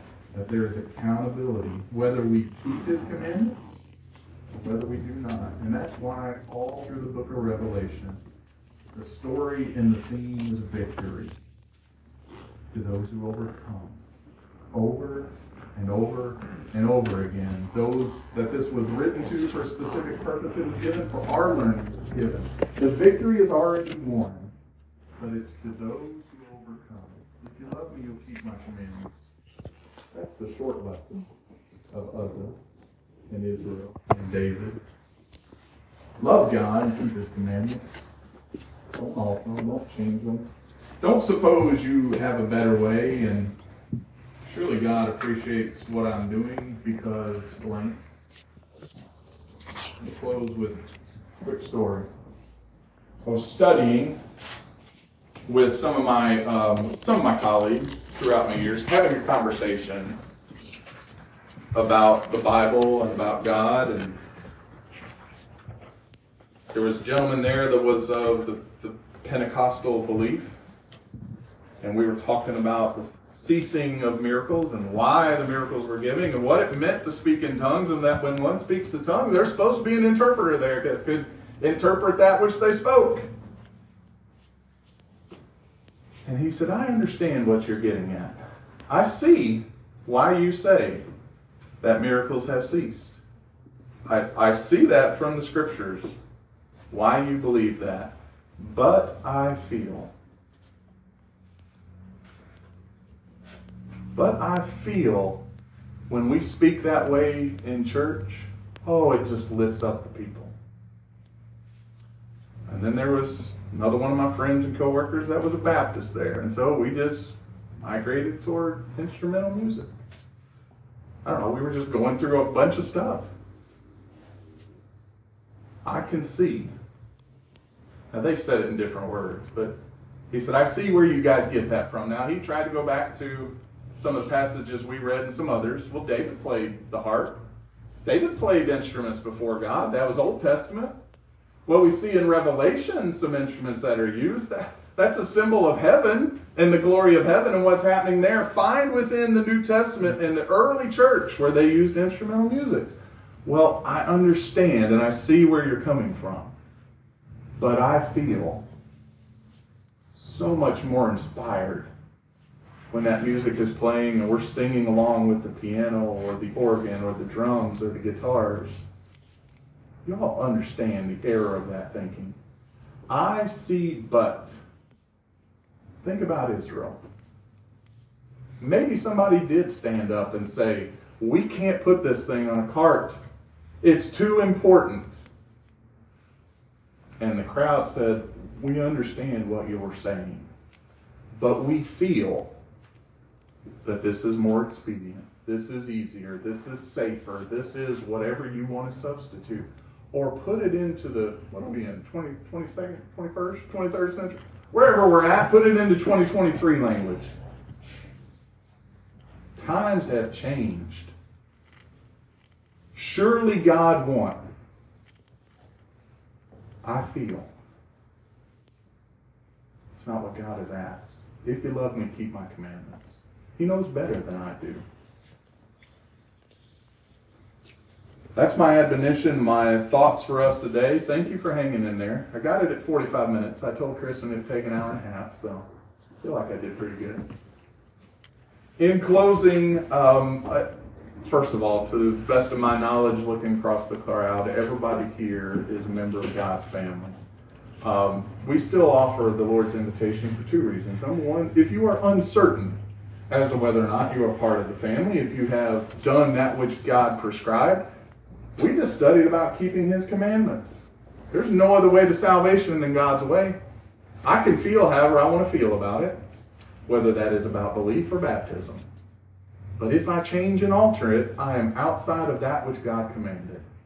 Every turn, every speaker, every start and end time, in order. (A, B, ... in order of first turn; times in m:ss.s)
0:00.3-0:03.8 A
0:04.5-0:08.2 A
0:08.9-0:11.4 A
0:12.7-0:14.0 A
0:14.7-0:24.5 A
0:25.2-0:29.3 A
0:30.1-0:31.3 A
0:31.9-0:32.5 A
0:33.3-0:34.8 A
0:36.2-0:38.1 A
0:38.9-0:40.5 A
0:41.0-0:43.5 A
0:44.4-0:48.0 A
0:50.0-0:50.8 A
0:51.4-0:52.1 A
0:53.2-0:54.2 A
0:55.5-1:00.2 A
1:01.7-1:04.2 A
1:06.7-1:10.6 A
1:11.8-1:23.3 A
1:26.2-1:31.0 A
1:31.8-1:33.2 A
1:34.0-1:36.2 A
1:36.9-1:40.1 A
1:44.1-1:45.4 A
1:46.1-1:50.5 A
1:52.7-1:59.9 A
2:01.2-2:03.3 A
2:05.8-2:06.7 A
2:08.1-2:09.7 A
2:10.3-2:17.4 A
2:18.0-2:20.9 A
2:21.6-2:36.5 A
2:37.6-2:38.6 A
2:40.1-2:41.9 A
2:42.9-2:48.8 A
2:50.0-2:52.4 A
2:53.1-2:54.6 A
2:56.0-2:57.0 A
2:58.6-3:03.2 A
3:03.8-3:05.2 A
3:07.2-3:10.5 A
3:11.3-3:12.5 A
3:13.8-3:27.3 A
3:29.6-3:31.1 A
3:32.9-3:34.7 A
3:36.8-3:37.5 A
3:39.9-3:44.8 A
3:48.3-3:55.6 A
3:56.2-3:57.3 A
3:58.8-4:00.7 A
4:01.2-4:07.2 A
4:07.8-4:12.8 A
4:13.3-4:17.8 A
4:18.6-4:23.6 A
4:24.2-4:26.2 A
4:26.8-4:28.8 A
4:29.8-4:33.6 A